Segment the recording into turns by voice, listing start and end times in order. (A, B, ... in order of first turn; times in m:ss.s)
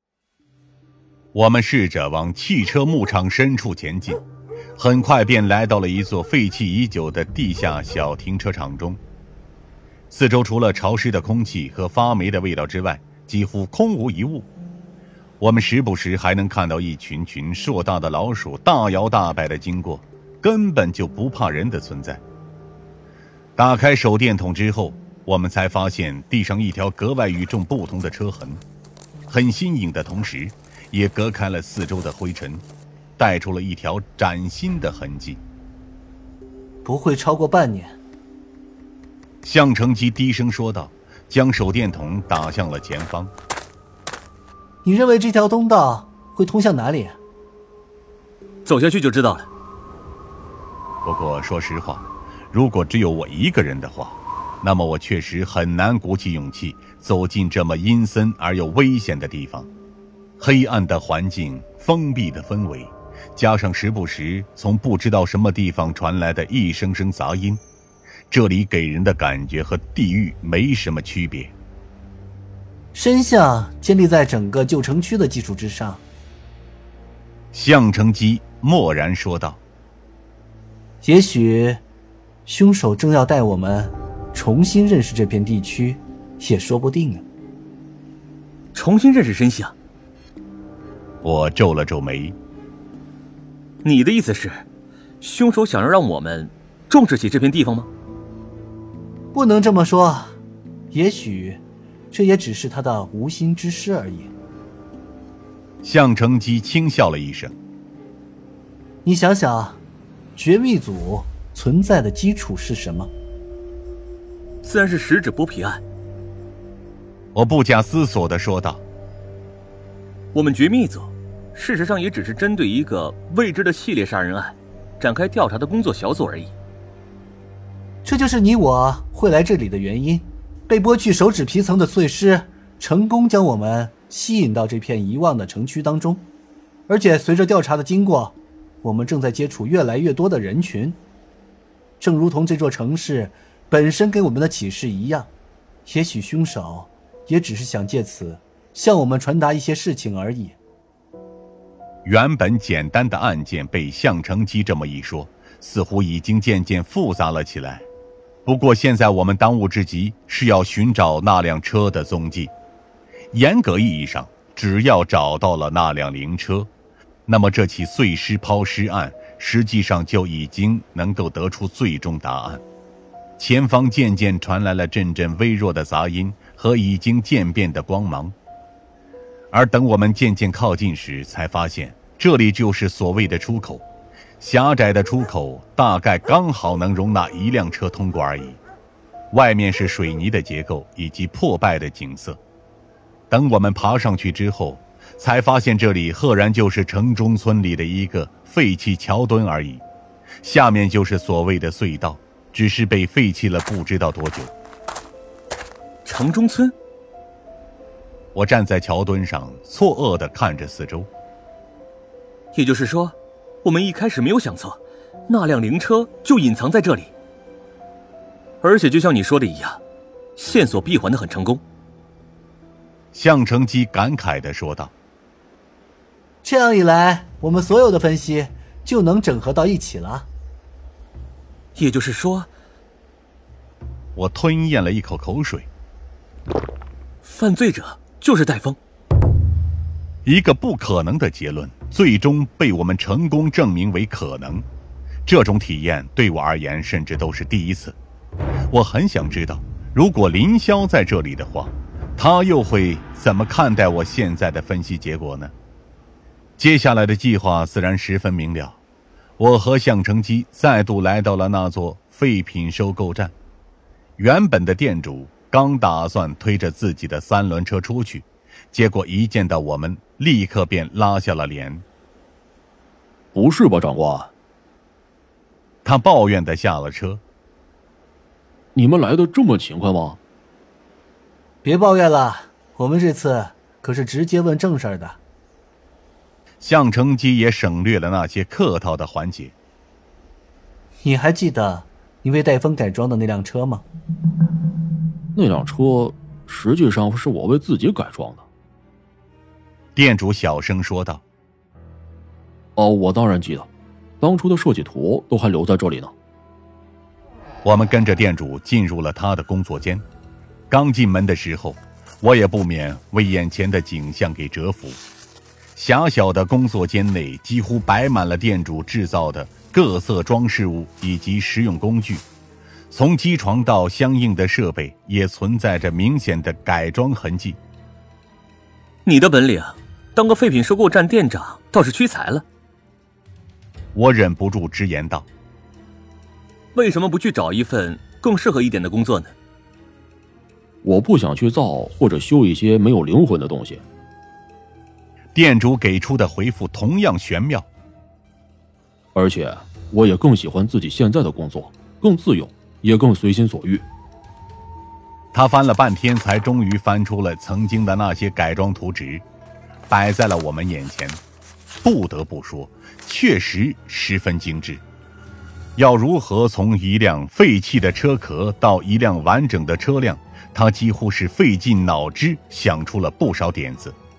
0:01.3-0:04.2 A
0:04.8-0:09.0 A
0:10.1-0:14.5 A
0:15.4-0:22.2 A
0:23.6-0:28.6 A
0:29.3-0:32.6 A
0:33.2-0:35.4 A
0:36.8-0:38.0 B
0:39.4-0:43.3 A
0:44.8-0:47.2 B
0:48.6-0:49.5 C
0:51.0-0:59.7 A
1:00.4-1:07.6 A
1:08.3-1:11.5 A
1:12.9-1:16.0 B
1:17.5-1:19.6 A
1:21.0-1:21.8 B
1:22.5-1:27.2 B
1:28.7-1:29.7 C
1:31.2-1:32.4 A
1:33.8-1:34.6 C
1:35.2-1:37.9 C
1:39.3-1:40.4 B
1:40.9-1:44.3 B
1:45.8-1:47.6 A
1:49.0-1:49.8 B
1:50.4-1:53.1 B
1:54.6-1:55.8 C
1:57.3-1:58.8 A
2:00.3-2:06.5 C
2:08.0-2:16.3 B
2:16.9-2:21.0 B
2:22.0-2:25.3 B
2:25.9-2:30.6 B
2:32.0-2:37.9 A
2:38.5-2:42.5 A
2:43.3-2:46.7 A
2:47.3-2:52.6 A
2:53.4-2:58.4 A
2:59.5-3:03.8 A
3:04.4-3:08.6 A
3:09.3-3:12.4 A
3:13.3-3:19.8 A
3:20.4-3:24.5 A
3:26.0-3:26.7 C
3:28.3-3:31.1 A
3:32.5-3:37.1 C
3:38.6-3:39.8 C
3:40.4-3:41.6 C
3:43.1-3:44.9 A
3:46.4-3:50.3 B
3:51.8-3:52.5 C
3:54.2-3:55.7 A
3:57.2-3:58.8 C
4:00.2-4:04.6 A
4:05.3-4:08.0 A
4:08.7-4:15.5 A
4:16.6-4:18.8 A
4:19.4-4:23.3 A
4:24.2-4:31.8 A
4:33.3-4:34.3 D
4:35.8-4:37.2 A
4:38.8-4:40.2 D
4:41.6-4:45.2 B
4:46.6-4:49.6 A
4:51.0-4:53.8 B
4:55.4-4:58.4 D
5:00.0-5:01.2 A
5:02.8-5:03.7 D
5:04.2-5:06.1 D
5:07.6-5:10.0 A
5:10.7-5:15.0 A
5:15.8-5:22.2 A
5:22.9-5:27.6 A
5:29.1-5:32.4 C
5:33.9-5:35.3 A
5:36.7-5:39.3 C
5:40.8-5:43.8 D
5:45.3-5:47.7 A
5:49.2-5:53.8 D
5:55.3-5:59.2 A
5:59.9-6:01.2 A
6:01.8-6:04.8 A
6:05.8-6:14.0 A